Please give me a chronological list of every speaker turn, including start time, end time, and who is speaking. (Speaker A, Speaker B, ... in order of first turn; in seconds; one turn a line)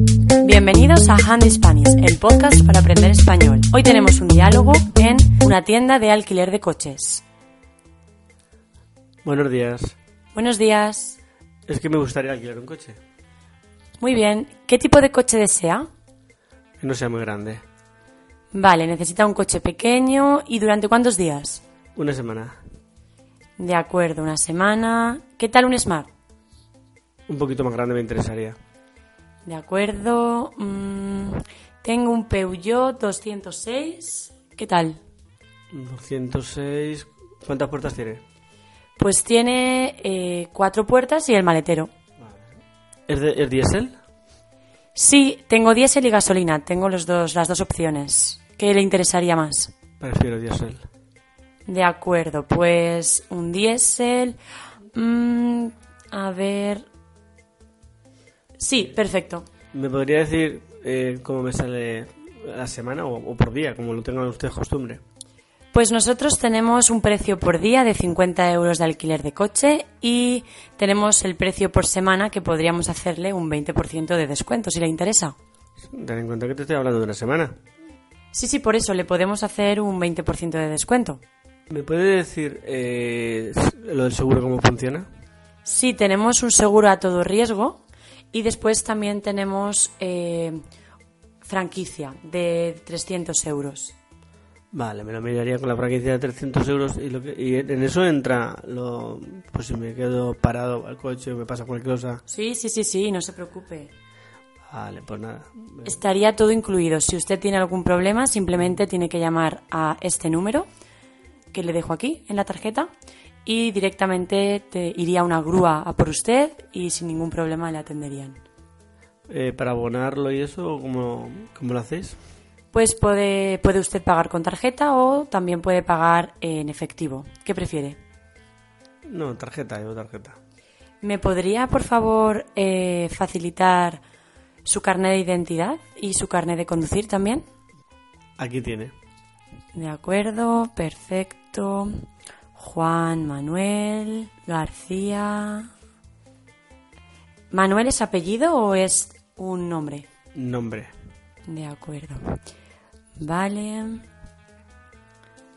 Speaker A: 0.4-7.2
Speaker B: 9.2-10.0
Speaker A: 10.3-11.2
Speaker B: 11.7-13.0
Speaker A: 14.0-15.9
Speaker B: 16.8-17.6
Speaker A: 18.5-21.6
Speaker B: 22.0-22.6
Speaker A: 23.6-26.1
Speaker B: 27.3-28.6
Speaker A: 29.4-35.0
Speaker B: 35.7-38.2
Speaker A: 39.0-41.9
Speaker B: 42.2-42.5
Speaker B: 43.1-44.0
Speaker A: 45.0-49.7
Speaker B: 50.0-50.8
Speaker A: 51.7-54.4
Speaker A: 54.9-56.9
Speaker A: 58.6-59.5
Speaker B: 59.7-65.0
Speaker A: 65.7-75.4
Speaker B: 75.8-77.6
Speaker A: 78.3-81.2
Speaker B: 81.7-85.1
Speaker A: 85.7-90.6
Speaker A: 91.4-94.0
Speaker B: 94.7-102.2
Speaker A: 102.3-103.9
Speaker B: 104.7-106.0
Speaker A: 105.8-110.7
Speaker A: 111.5-112.9
Speaker A: 113.5-118.4
Speaker B: 119.3-122.2
Speaker A: 122.7-128.0
Speaker B: 129.1-130.4
Speaker A: 131.0-134.0
Speaker A: 134.7-137.4
Speaker B: 138.4-138.9
Speaker A: 139.7-141.9
Speaker A: 142.6-145.7
Speaker A: 147.5-150.1
Speaker B: 150.3-150.9
Speaker A: 151.5-152.4
Speaker A: 153.2-154.0